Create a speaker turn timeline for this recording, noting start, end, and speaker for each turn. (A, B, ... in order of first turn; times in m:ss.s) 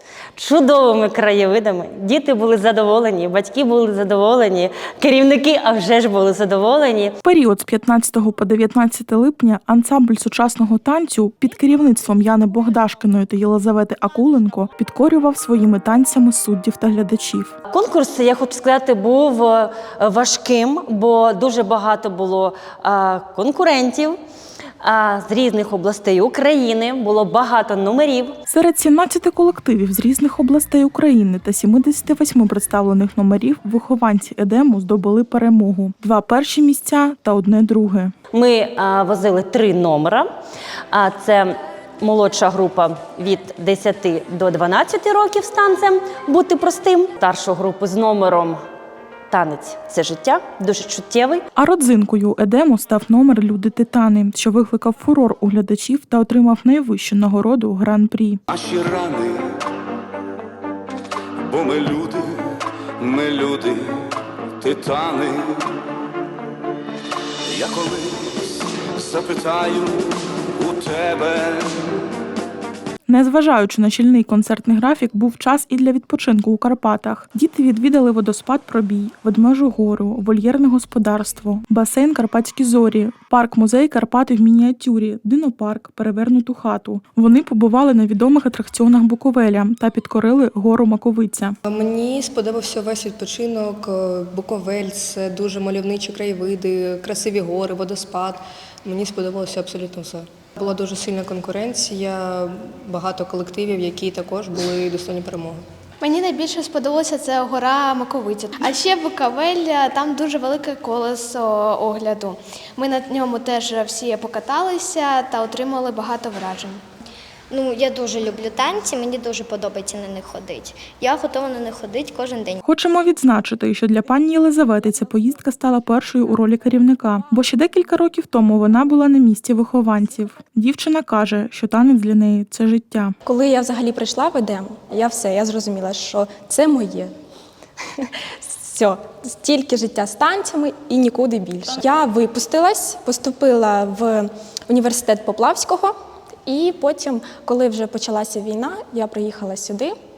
0:00.4-0:07.1 A
0:07.2-0:17.6 B
0:17.7-0:24.2 A
0:24.8-0:28.4 A
0:28.5-0:38.1 B
0:38.3-0:40.3 A
0:40.9-0:48.6 A
0:49.3-0:51.4 A
0:51.6-0:58.4 B
0:58.5-0:59.4 C
1:01.4-1:02.3 C
1:03.0-1:03.9 C
1:04.6-1:05.7 C
1:07.5-1:11.7 C
1:13.1-1:31.6 B
1:31.7-1:45.6 D
1:46.0-1:56.8 E
1:57.5-2:02.6 F
2:02.6-2:13.1 B
2:13.2-2:17.1 G
2:18.0-2:25.9 G
2:26.5-2:29.9 G